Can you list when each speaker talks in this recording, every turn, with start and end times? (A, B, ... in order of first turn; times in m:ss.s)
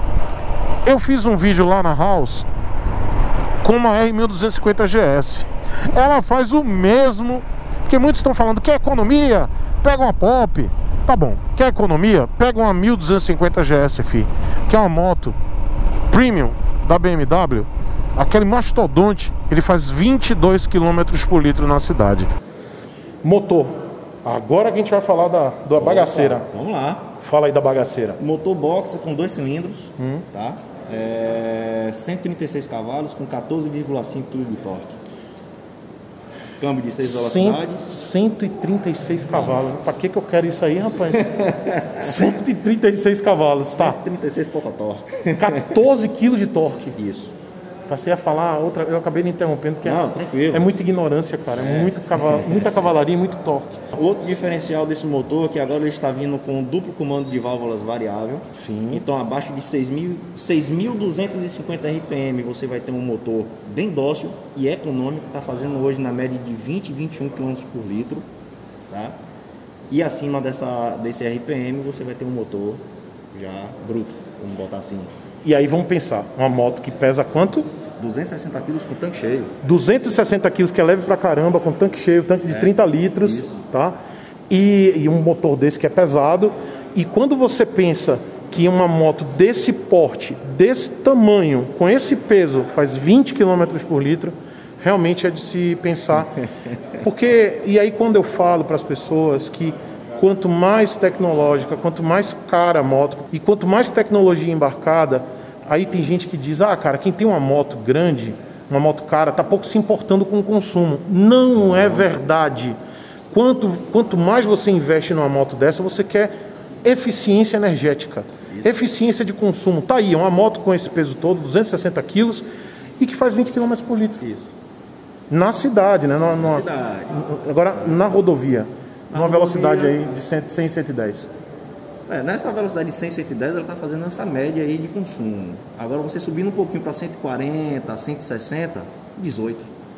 0:00.8-0:02.5 A
0:03.6-0:15.4 A
0:16.1-0:22.3 A
0:23.2-0:26.5 A
0:25.8-0:27.1 B
0:27.2-0:28.2 A
0:28.2-0:35.0 B
0:30.0-0:30.2 A
0:36.6-0:37.9 B
0:37.0-0:44.0 A
0:39.3-0:39.6 B
0:41.3-0:41.9 B
0:43.7-0:45.8 B
0:45.4-0:47.0 A
0:46.9-0:47.3 B
0:47.9-0:53.9 A
0:49.8-0:50.7 B
0:51.5-0:52.5 B
0:53.9-1:08.3 B
0:58.5-0:59.0 A
1:08.9-1:09.2 B
1:09.9-1:15.1 B
1:15.4-1:17.7 A
1:18.0-1:19.5 B
1:19.6-1:24.0 A
1:22.4-1:23.6 B
1:24.5-1:36.4 A
1:36.9-1:52.8 A
1:51.6-1:52.1 B
1:53.3-1:56.3 A
1:56.8-2:02.4 A
2:03.0-2:04.2 A
2:04.2-2:04.5 B
2:05.3-2:11.3 A
2:06.4-2:07.2 B
2:09.1-2:10.1 B
2:12.1-2:19.7 B